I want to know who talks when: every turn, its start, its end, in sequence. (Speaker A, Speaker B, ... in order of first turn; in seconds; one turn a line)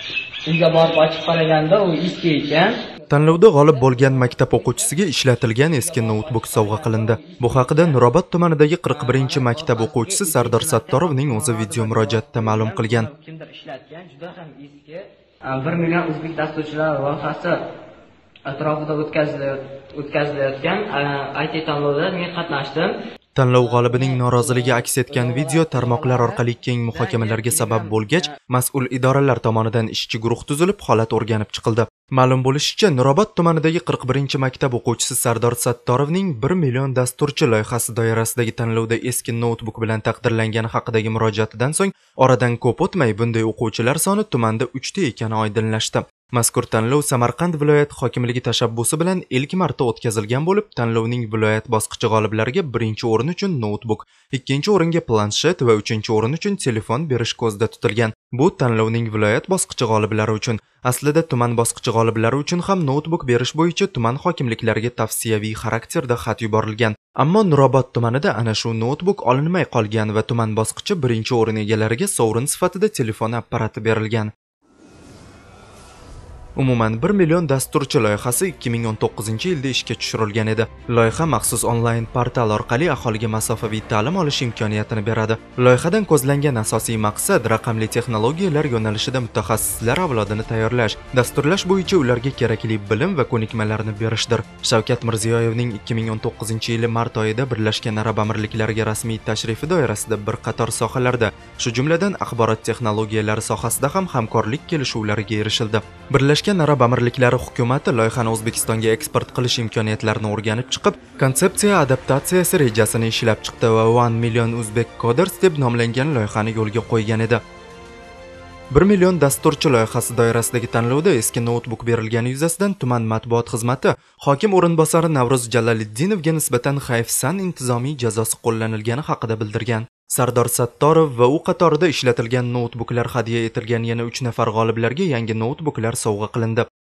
Speaker A: 0.5-5.0
Speaker B: 3.1-13.1
Speaker A: 5.6-8.1
Speaker A: 8.8-17.6
Speaker A: 18.4-22.9
Speaker B: 23.4-74.3
Speaker A: 23.5-28.4
Speaker B: 76.6-117.4
Speaker B: 118.7-136.6